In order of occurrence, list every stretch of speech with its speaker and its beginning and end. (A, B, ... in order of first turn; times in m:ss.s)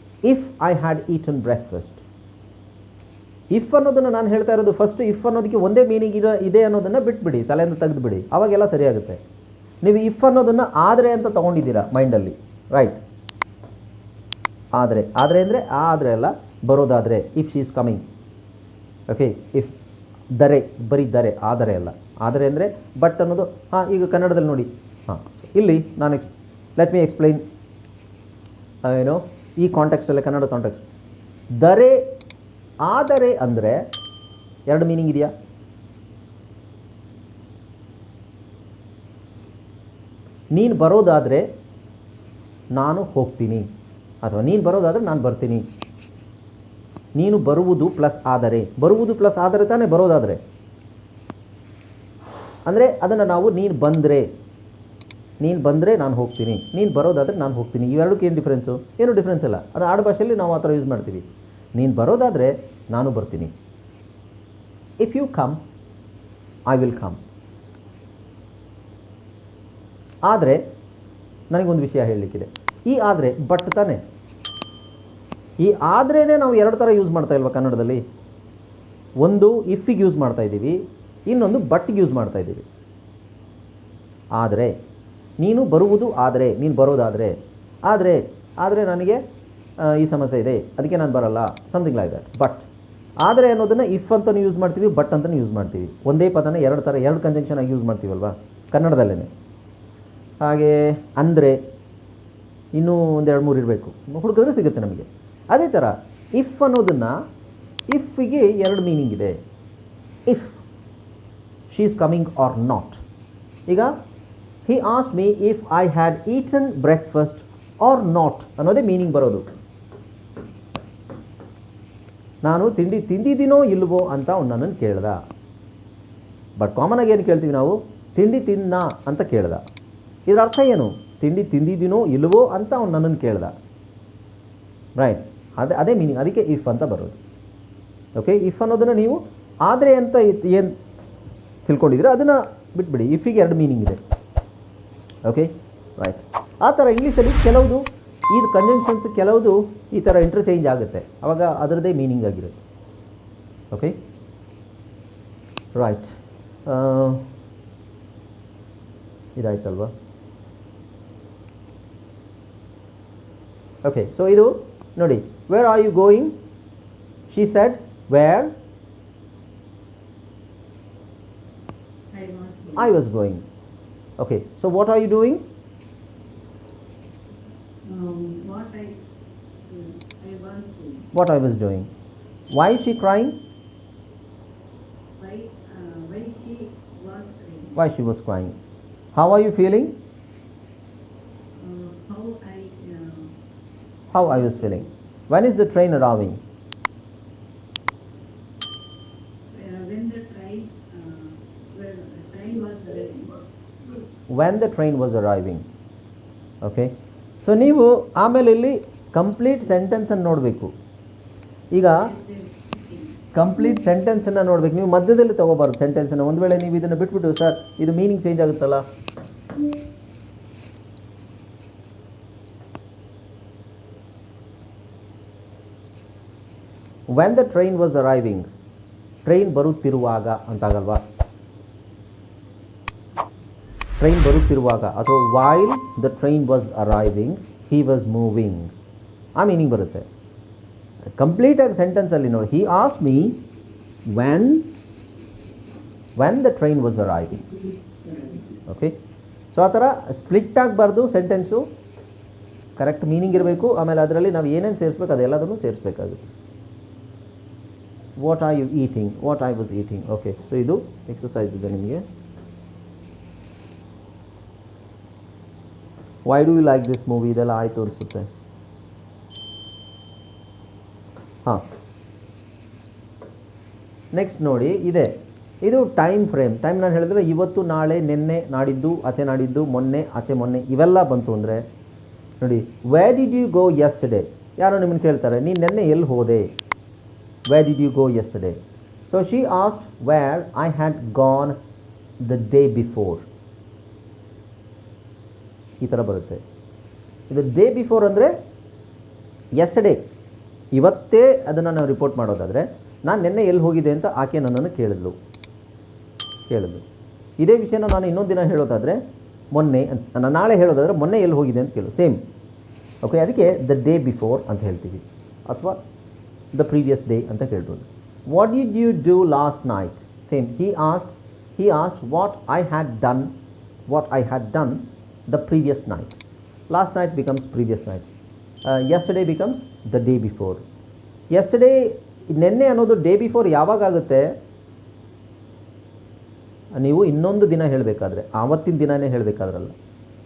0:00.2-0:02.0 A
0:03.5-0:09.2 A
0:09.8-0:13.0 A
0:14.7-0:18.0 A
0:19.1-0:19.7 A
0:20.3-0:27.4 A
0:28.8-0:30.8 A
0:31.6-0:32.0 A
0:32.8-0:33.8 A
0:34.7-0:35.3 A
0:40.5-0:41.4 A
0:42.7-0:43.6 A
0:44.2-0:45.6 A
0:47.1-0:50.4 A
0:52.6-0:54.3 A
0:55.4-1:03.5 A
1:05.0-1:05.6 A
1:06.7-1:07.2 A
1:10.2-1:10.6 A
1:11.5-1:14.0 A
1:15.6-1:18.0 A
1:19.2-1:22.6 A
1:24.3-1:24.7 A
1:25.4-1:27.3 A
1:27.8-1:29.2 A
1:29.8-1:32.6 A
1:33.2-1:39.3 A
1:40.4-1:41.6 A
1:42.7-1:47.2 A
1:47.9-1:49.4 A
1:50.2-1:50.6 A
1:51.7-1:53.0 A
1:53.7-1:53.9 A
1:54.6-1:59.4 A
2:02.4-2:05.2 A
2:06.6-2:09.6 A
2:10.3-2:13.5 A
2:15.0-2:17.2 A
2:18.1-2:20.7 A
2:21.6-2:24.0 A
2:25.2-2:32.6 A
2:33.7-2:34.0 A
2:35.7-2:36.1 A
2:36.6-2:37.2 A
2:39.4-2:39.9 A
2:43.8-2:46.3 A
2:47.3-2:48.5 A
2:52.1-2:53.0 B
2:52.8-2:53.4 A
2:54.2-2:55.4 A
2:57.9-2:59.0 B
2:59.6-3:01.1 B
3:01.1-3:01.9 A
3:02.5-3:03.4 A
3:05.2-3:07.7 B
3:07.7-3:08.5 A
3:09.1-3:09.9 A
3:11.6-3:13.3 B
3:14.1-3:16.4 A
3:14.2-3:14.8 B
3:19.5-3:23.4 B
3:24.3-3:25.6 A
3:26.6-3:30.7 A
3:31.9-3:33.2 B
3:33.3-3:38.8 A
3:47.1-3:48.4 A
3:49.2-3:51.0 A
3:54.0-3:58.7 A
3:59.4-4:00.1 A
4:01.2-4:03.4 A
4:04.0-4:04.7 A
4:06.2-4:07.5 A
4:08.0-4:08.4 B
4:08.6-4:08.9 A
4:09.5-4:11.6 A
4:12.8-4:16.2 A
4:18.2-4:22.0 A
4:26.2-4:28.3 A
4:34.1-4:41.6 A
4:42.4-4:46.5 A
4:47.5-4:48.6 A
4:49.1-4:51.5 A
4:52.2-4:53.2 A
4:55.8-4:56.4 A
4:57.3-4:58.3 A
4:59.6-5:00.0 A
5:00.7-5:05.1 A
5:06.5-5:06.8 A
5:07.4-5:09.0 A
5:09.5-5:12.2 A
5:13.0-5:15.8 A
5:16.5-5:23.3 A
5:23.9-5:26.2 A
5:26.7-5:28.1 A
5:28.6-5:30.6 A
5:31.3-5:34.4 A
5:36.7-5:39.7 A